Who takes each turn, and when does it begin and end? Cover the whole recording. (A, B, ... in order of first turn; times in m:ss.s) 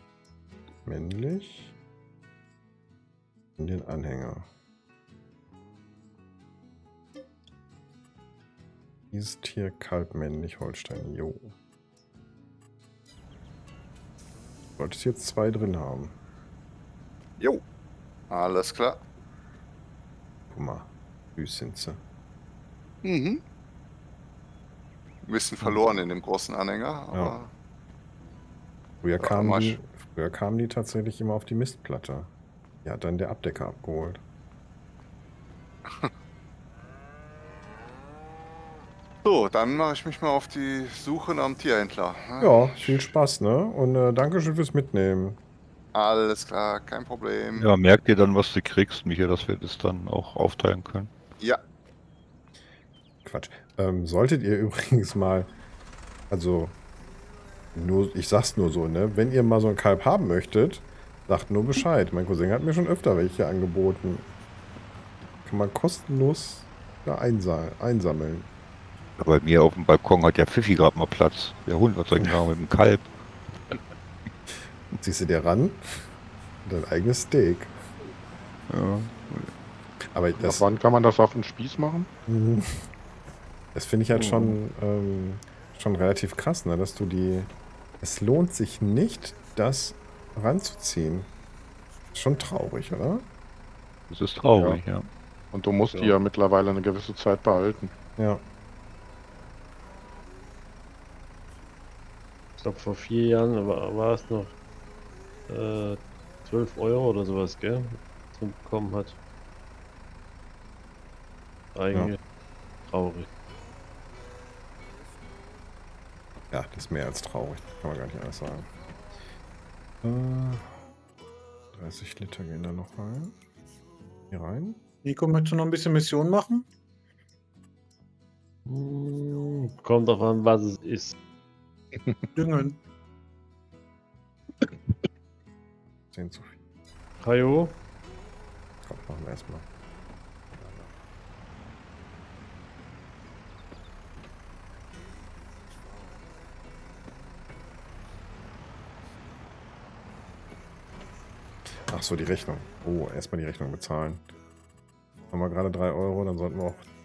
0:00.8-0:01.7 A
0:03.6-0:04.5 A
0:09.1-0:11.5 A
0:14.8-0:16.1 A
0:18.3-0:19.0 B
0:20.5-0:22.0 A
0:23.0-0:23.4 B
0:25.2-0:27.5 B
0:27.1-0:27.4 A
0:29.0-0:32.3 A
0:29.2-0:29.8 B
0:32.8-0:34.2 A
0:39.2-0:43.1 B
0:42.4-0:45.4 A
0:45.9-0:47.7 B
0:47.6-0:51.1 C
0:53.2-0:55.5 A
0:56.3-0:56.7 A
0:57.7-1:04.3 A
1:05.4-1:08.5 A
1:09.2-1:13.1 C
1:15.0-1:16.0 A
1:16.6-1:17.7 A
1:18.7-1:19.5 C
1:20.1-1:20.6 A
1:20.4-1:22.1 D
1:22.2-1:22.8 A
1:23.7-1:31.3 A
1:24.1-1:24.6 E
1:32.1-1:33.2 A
1:34.1-1:35.1 C
1:34.5-1:34.8 D
1:35.5-1:37.9 D
1:35.9-1:36.2 E
1:38.2-1:38.4 A
1:42.6-1:44.5 E
1:45.5-1:49.2 E
1:51.7-1:52.2 E
1:52.9-1:53.3 E
1:56.5-1:58.7 A
2:00.0-2:00.7 A
2:01.7-2:03.3 A
2:04.3-2:04.8 A
2:05.0-2:06.6 F
2:08.6-2:11.1 E
2:12.3-2:12.8 F
2:16.1-2:16.5 A
2:17.2-2:17.7 E
2:18.8-2:19.6 A
2:20.6-2:20.9 A
2:31.9-2:34.2 A
2:35.3-2:36.9 A